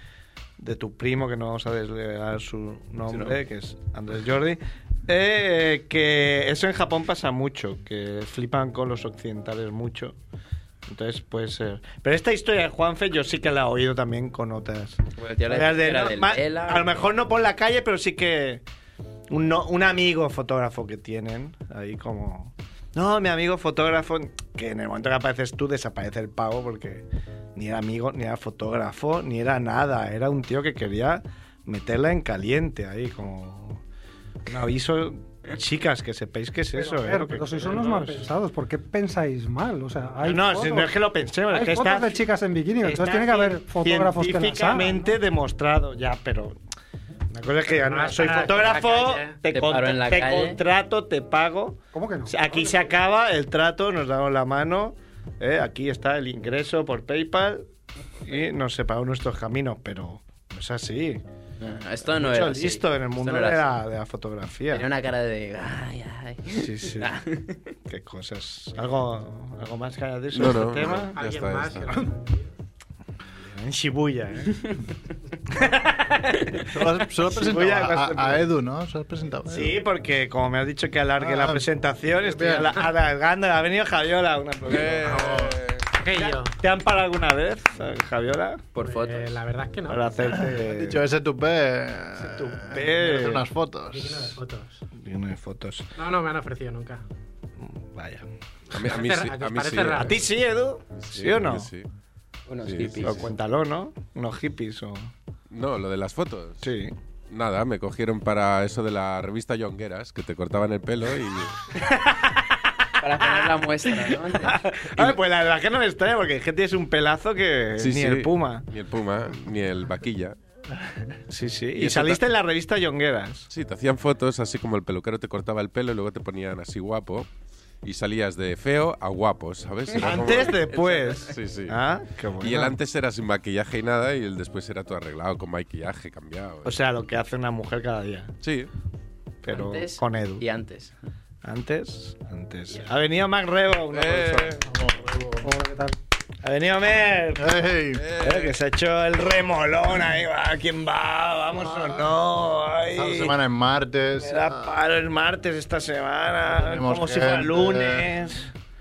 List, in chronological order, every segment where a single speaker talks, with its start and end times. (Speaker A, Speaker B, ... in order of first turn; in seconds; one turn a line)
Speaker A: 0.6-10.2
Speaker B: 3.1-3.4
Speaker A: 10.9-18.6
Speaker B: 15.2-17.1
Speaker A: 19.3-33.8
Speaker A: 34.5-38.2
Speaker C: 36.8-40.9
Speaker A: 40.2-42.2
Speaker C: 41.5-45.1
Speaker A: 42.8-46.6
Speaker A: 47.3-57.6
Speaker D: 47.8-49.4
Speaker B: 49.5-50.6
Speaker C: 51.9-52.6
Speaker A: 58.2-61.2
Speaker B: 61.6-63.8
Speaker A: 62.0-64.9
Speaker B: 64.7-67.6
Speaker A: 66.5-67.2
Speaker A: 67.9-71.2
Speaker E: 70.3-72.1
Speaker D: 71.2-72.5
Speaker A: 73.4-74.6
Speaker A: 75.5-76.4
Speaker F: 76.7-79.8
Speaker A: 77.2-78.5
Speaker A: 79.5-85.4
Speaker F: 81.2-81.7
Speaker F: 82.2-82.8
Speaker E: 84.7-85.9
Speaker F: 85.1-85.6
Speaker D: 86.0-86.6
Speaker A: 86.2-88.6
Speaker B: 88.8-89.4
Speaker D: 88.8-90.0
Speaker A: 89.9-91.0
Speaker F: 90.5-94.4
Speaker A: 92.4-93.5
Speaker D: 93.9-94.8
Speaker A: 95.0-95.9
Speaker D: 96.0-97.0
Speaker A: 97.6-98.3
Speaker E: 98.7-100.2
Speaker D: 98.8-100.3
Speaker A: 99.9-101.7
Speaker E: 100.9-101.9
Speaker B: 102.5-103.3
Speaker E: 102.6-103.2
Speaker A: 103.0-105.1
Speaker E: 105.5-106.7
Speaker A: 106.6-106.9
Speaker E: 107.3-111.6
Speaker A: 111.8-112.6
Speaker B: 113.0-114.7
Speaker A: 113.1-118.7
Speaker E: 117.8-120.4
Speaker A: 121.3-123.5
Speaker E: 121.8-122.2
Speaker E: 123.5-127.3
Speaker E: 127.8-131.8
Speaker A: 130.0-132.8
Speaker B: 130.1-130.3
Speaker E: 132.4-136.8
Speaker A: 136.7-138.3
Speaker E: 138.4-138.7
Speaker A: 139.4-140.4
Speaker B: 139.5-140.9
Speaker A: 141.4-144.5
Speaker E: 143.9-144.7
Speaker F: 144.7-145.5
Speaker C: 145.4-146.0
Speaker A: 146.4-147.5
Speaker F: 147.4-148.0
Speaker E: 148.0-148.6
Speaker A: 148.2-153.4
Speaker F: 151.7-152.0
Speaker F: 152.9-154.8
Speaker A: 154.2-158.5
Speaker F: 156.5-158.2